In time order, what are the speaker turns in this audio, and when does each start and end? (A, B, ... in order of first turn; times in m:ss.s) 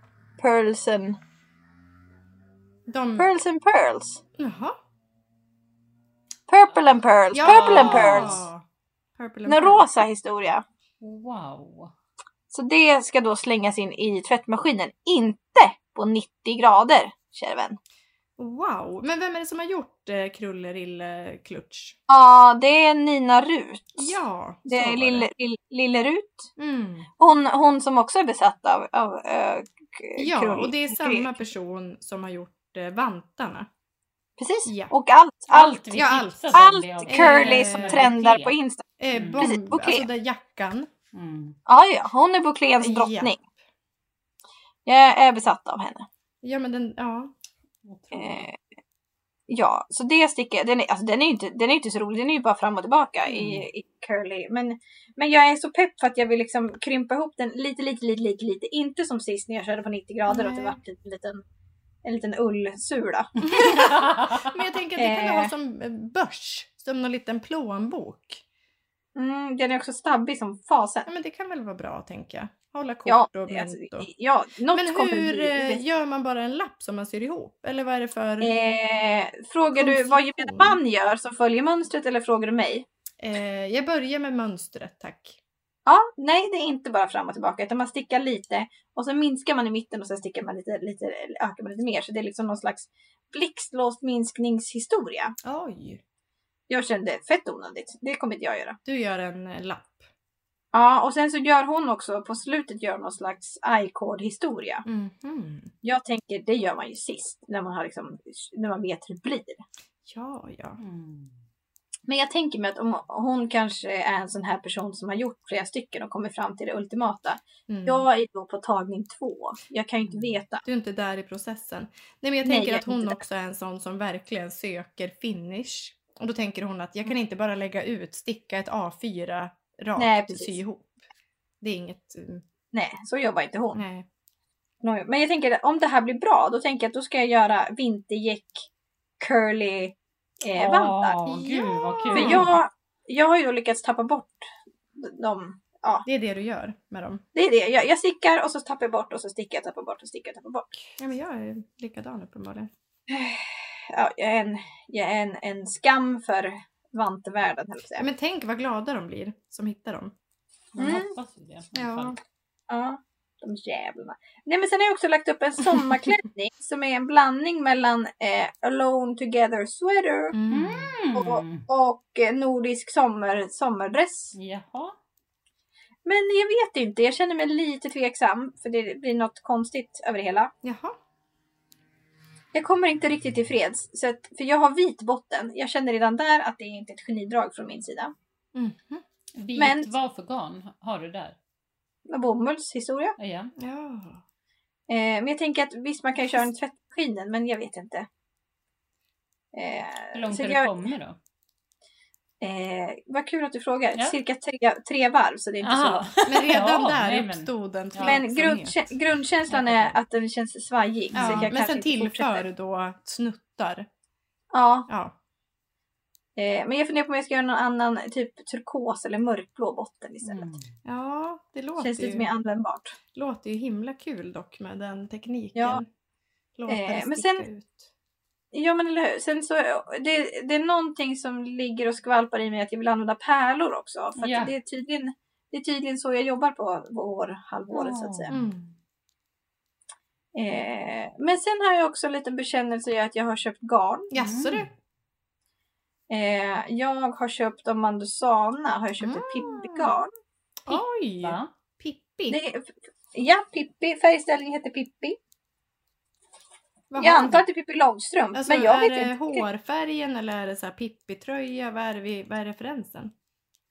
0:00.4-0:01.2 A
0:02.9-0:03.3 B
0:03.2-0:04.2 A
0:04.4-0:04.8 B
0:06.5-0:08.4 A
0:07.3-0:08.6 B
0:07.3-0:08.4 C
0:09.2-0:09.8 B
0:09.5-0:10.6 A
0:11.0-0:11.9 C
0:12.5-0:17.8 A
0:18.4-0:22.0 B
0:22.1-0:24.1 A
0:24.0-0:25.3 B
0:24.7-0:26.5 A
0:26.6-0:27.1 B
0:27.2-0:31.4 A
0:30.2-0:33.7 B
0:34.4-0:35.9 A
0:34.6-0:34.9 B
0:35.5-0:38.6 C
0:35.9-0:38.1 B
0:36.5-0:38.8 A
0:39.0-0:40.9 B
0:39.1-0:39.5 C
0:39.4-0:40.1 A
0:41.1-0:41.6 C
0:41.7-0:43.4 A
0:42.8-0:43.4 B
0:44.9-0:46.1 A
0:46.4-0:47.3 B
0:47.8-0:48.5 C
0:48.1-0:48.6 A
0:49.5-1:01.4 A
1:00.3-1:00.8 B
1:02.0-1:03.9 A
1:03.4-1:08.4 B
1:03.6-1:04.5 C
1:05.0-1:05.5 A
1:09.2-1:11.1 A
1:11.1-1:14.1 B
1:13.1-1:15.8 A
1:14.7-1:18.5 B
1:18.4-1:22.9 A
1:19.8-1:20.8 B
1:23.2-1:25.4 B
1:25.9-1:35.3 A
1:35.4-1:36.0 B
1:36.7-1:38.8 A
1:38.8-1:40.0 B
1:40.7-1:44.8 A
1:44.9-1:45.7 B
1:45.8-1:49.6 A
1:50.1-1:50.8 B
1:50.8-1:51.3 C
1:52.1-2:00.6 A
1:57.7-1:58.0 B
2:00.6-2:11.0 B
2:02.4-2:03.2 A
2:10.0-2:10.6 A
2:11.6-2:12.4 B
2:12.7-2:13.8 A
2:13.7-2:14.1 B
2:14.8-2:18.7 A
2:19.2-2:21.4 A
2:20.6-2:22.6 C
2:21.3-2:22.5 B
2:22.1-2:26.1 A
2:26.1-2:27.2 B
2:27.4-2:30.7 A
2:31.0-2:32.7 B
2:33.1-2:38.1 A
2:38.0-2:40.1 B
2:40.7-2:42.2 C
2:40.8-2:41.1 A
2:41.7-2:42.2 B
2:42.7-2:50.4 A
2:50.3-2:50.9 B
2:50.5-2:51.7 C
2:51.1-2:54.3 A
2:54.3-2:55.0 C
2:56.1-3:00.5 A
3:00.6-3:01.0 B
3:02.5-3:08.1 A
3:08.5-3:09.0 B
3:09.4-3:11.4 C
3:09.6-3:09.9 A
3:12.1-3:13.2 A
3:13.2-3:13.5 C
3:13.6-3:14.2 B
3:14.9-3:18.1 A
3:19.5-3:20.9 A
3:20.1-3:21.2 C
3:22.4-3:26.0 A
3:25.6-3:28.2 C
3:26.3-3:28.9 B
3:28.0-3:32.4 A
3:29.5-3:30.0 C
3:31.1-3:31.5 C
3:31.1-3:33.9 B
3:34.5-3:34.9 A
3:34.9-3:35.2 B
3:36.4-3:40.5 A
3:40.2-3:40.7 C
3:40.8-3:42.3 B
3:41.8-3:43.0 A
3:43.1-3:45.9 B
3:45.6-3:45.8 A
3:46.6-3:47.9 B
3:46.7-3:47.5 A
3:48.5-3:58.3 A
3:54.2-3:54.5 C
3:57.7-3:58.4 C
3:58.3-3:58.7 B
4:00.3-4:04.1 A
4:04.1-4:04.7 B
4:04.2-4:04.7 C
4:06.1-4:10.1 A
4:09.0-4:09.9 B
4:10.7-4:12.4 B
4:10.7-4:11.5 C
4:12.3-4:15.2 A
4:16.9-4:17.4 B
4:17.0-4:19.4 A
4:18.3-4:23.1 B